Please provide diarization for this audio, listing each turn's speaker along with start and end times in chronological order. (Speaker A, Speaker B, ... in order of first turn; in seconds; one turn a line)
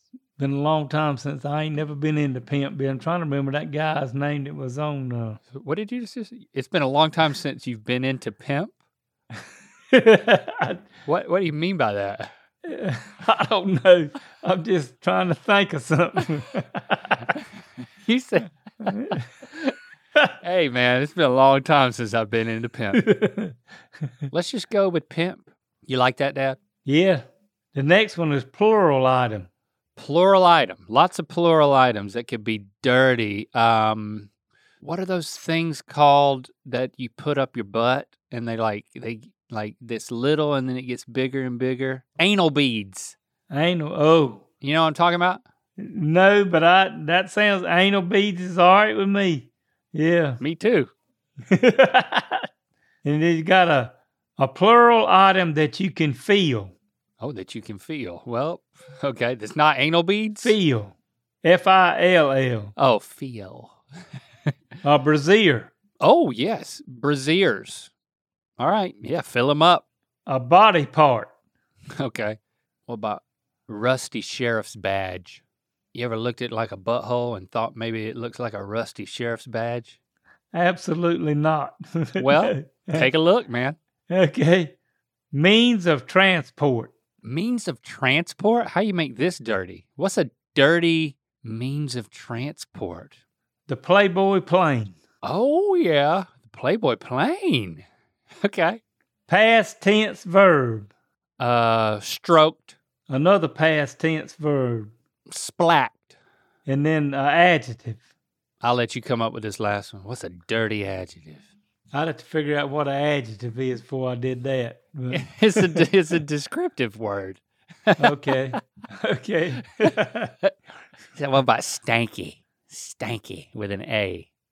Speaker A: 0.4-5.4
Speaker B: 5.5-8.7
Speaker A: 9.9-10.8
Speaker B: 11.1-12.3
Speaker A: 12.7-17.2
Speaker B: 18.1-19.7
Speaker A: 18.9-19.2
Speaker B: 20.4-23.0
Speaker A: 22.9-23.6
Speaker B: 24.3-26.6
Speaker A: 26.9-27.2
Speaker A: 27.7-29.5
Speaker B: 30.0-34.3
Speaker B: 34.8-43.2
Speaker A: 43.5-44.4
Speaker B: 44.6-45.4
Speaker A: 45.8-50.4
Speaker B: 50.4-50.9
Speaker A: 51.5-52.4
Speaker A: 53.0-56.7
Speaker B: 57.2-60.6
Speaker A: 60.4-62.7
Speaker B: 62.8-63.8
Speaker A: 64.8-65.7
Speaker B: 66.0-67.9
Speaker B: 68.6-69.8
Speaker A: 70.3-71.3
Speaker B: 72.0-75.4
Speaker B: 75.9-80.0
Speaker A: 80.5-83.1
Speaker B: 82.2-83.8
Speaker A: 84.1-84.8
Speaker A: 85.3-86.9
Speaker B: 87.2-93.2
Speaker A: 93.7-95.0
Speaker B: 95.2-97.8
Speaker B: 98.4-98.8
Speaker A: 99.3-100.9
Speaker B: 101.4-102.8
Speaker A: 103.1-104.9
Speaker B: 105.3-106.1
Speaker A: 106.7-108.0
Speaker B: 108.6-111.5
Speaker A: 111.9-115.8
Speaker B: 115.1-118.4
Speaker A: 118.0-120.3
Speaker B: 121.2-124.3